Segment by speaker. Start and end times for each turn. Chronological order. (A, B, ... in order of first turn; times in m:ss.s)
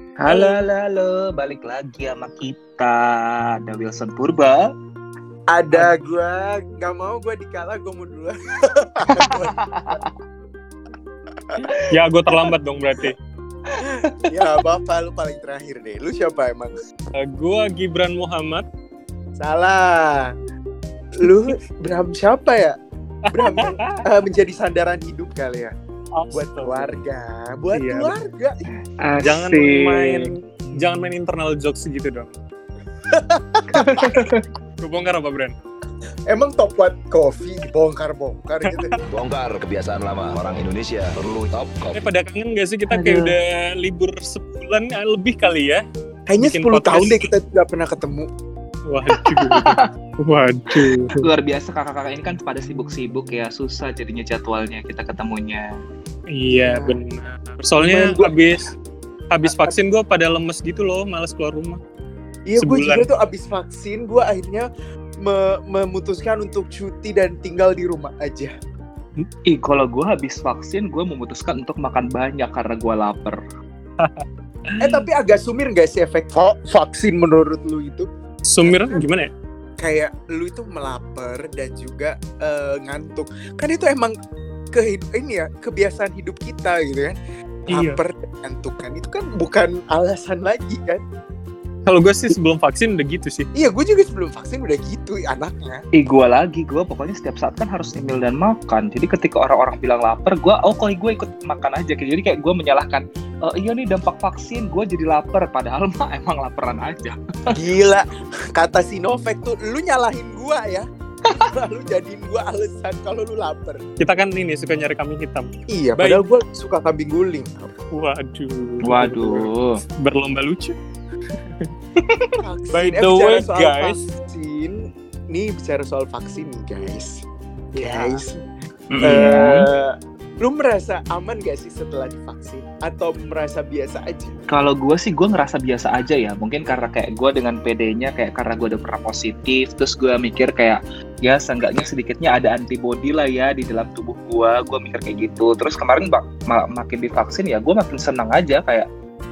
0:00.2-0:04.7 A
0:00.3-0:00.6 B
0:05.5-0:10.0 C
0:05.7-0:06.0 A
0:09.2-0:10.0 A
0:11.9-0:13.1 B
0:13.7-0:14.3 A
0:14.3-0:16.8 C
0:17.1-0:18.6 B
0:19.4-0:20.3 C
0:21.2-0:22.8 C
0:23.2-0:24.0 B
0:23.3-0:25.7 C
0:26.2-0:26.9 B
0:26.3-0:28.6 C
0:27.7-0:28.1 B
0:29.0-0:30.3 A
0:29.2-0:32.3 B
0:33.1-0:34.2 C
0:33.7-0:34.4 A
0:34.8-0:35.5 B
0:36.3-0:38.9 C
0:38.6-0:39.0 B
0:39.1-0:42.0 D
0:41.9-0:45.8 B
0:42.9-0:43.3 A
0:46.3-0:48.3 C
0:46.4-0:47.3 B
0:48.9-0:51.2 B
0:49.1-0:49.9 A
0:50.8-0:55.7 A
0:56.3-0:58.7 B
0:56.5-0:56.9 C
0:57.8-0:58.3 C
0:59.3-1:01.8 B
0:59.4-0:59.8 C
1:02.5-1:04.7 C
1:02.6-1:03.1 B
1:05.2-1:08.5 C
1:09.5-1:13.4 A
1:14.0-1:15.1 B
1:14.8-1:18.1 C
1:18.5-1:19.3 B
1:18.6-1:19.0 C
1:19.8-1:24.1 C
1:24.7-1:31.0 C
1:27.7-1:28.0 B
1:31.9-1:33.5 B
1:33.5-1:35.8 C
1:36.0-1:47.5 A
1:47.5-1:53.8 C
1:54.0-1:56.2 B
1:55.7-1:57.7 C
1:57.9-2:00.7 B
1:58.8-1:59.8 A
2:02.0-2:02.3 A
2:02.4-2:07.2 C
2:02.7-2:04.0 B
2:07.7-2:08.2 B
2:07.8-2:08.4 C
2:08.9-2:09.6 A
2:09.0-2:14.3 C
2:14.5-2:28.9 A